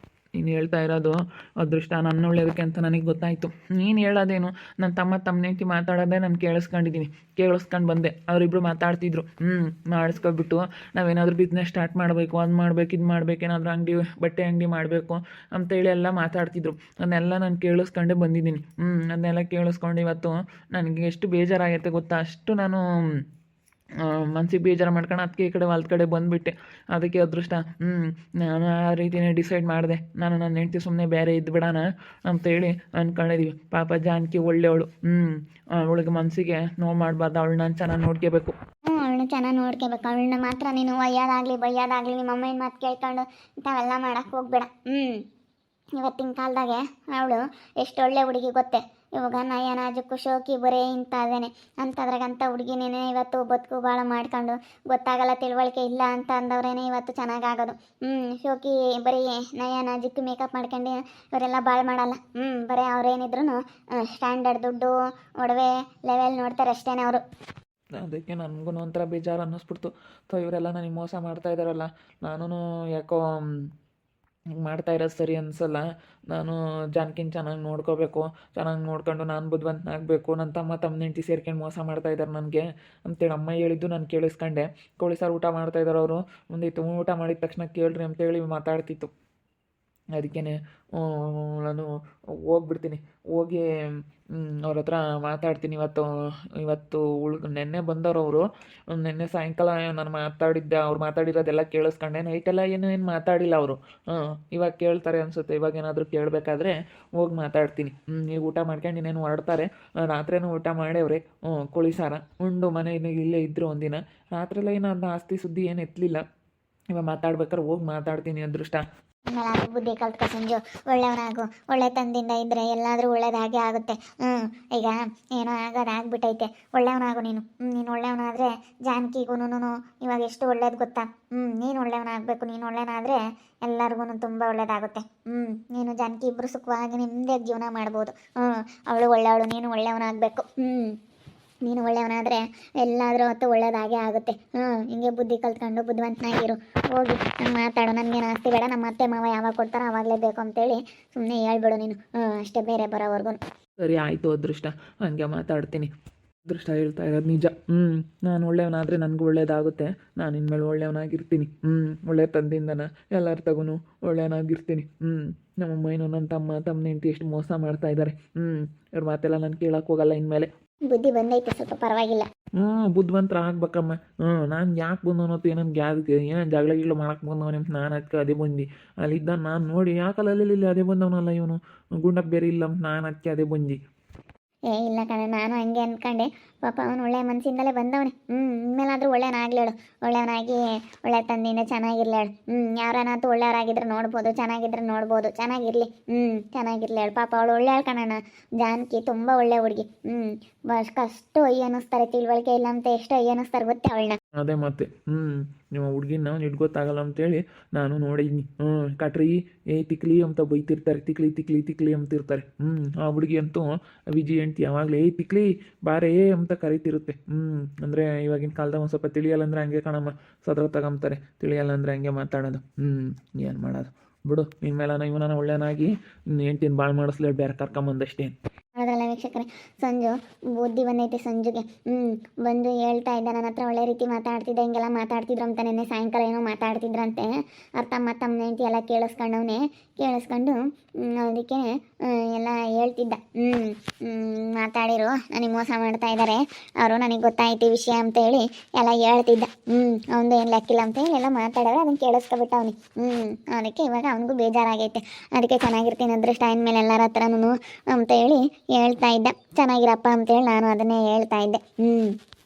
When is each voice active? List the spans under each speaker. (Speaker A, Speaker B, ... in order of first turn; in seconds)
Speaker A: 0.4-22.8, 24.1-38.5, 68.0-73.2, 74.6-89.1, 90.2-91.9, 92.5-93.7, 94.3-116.2, 116.9-118.8, 153.8-155.9, 156.5-170.5, 172.6-183.8, 204.4-228.3
Speaker B: 38.9-45.2, 46.0-67.2, 119.3-141.0, 141.7-153.4, 170.9-172.3, 184.7-204.2, 228.8-237.3, 237.8-262.1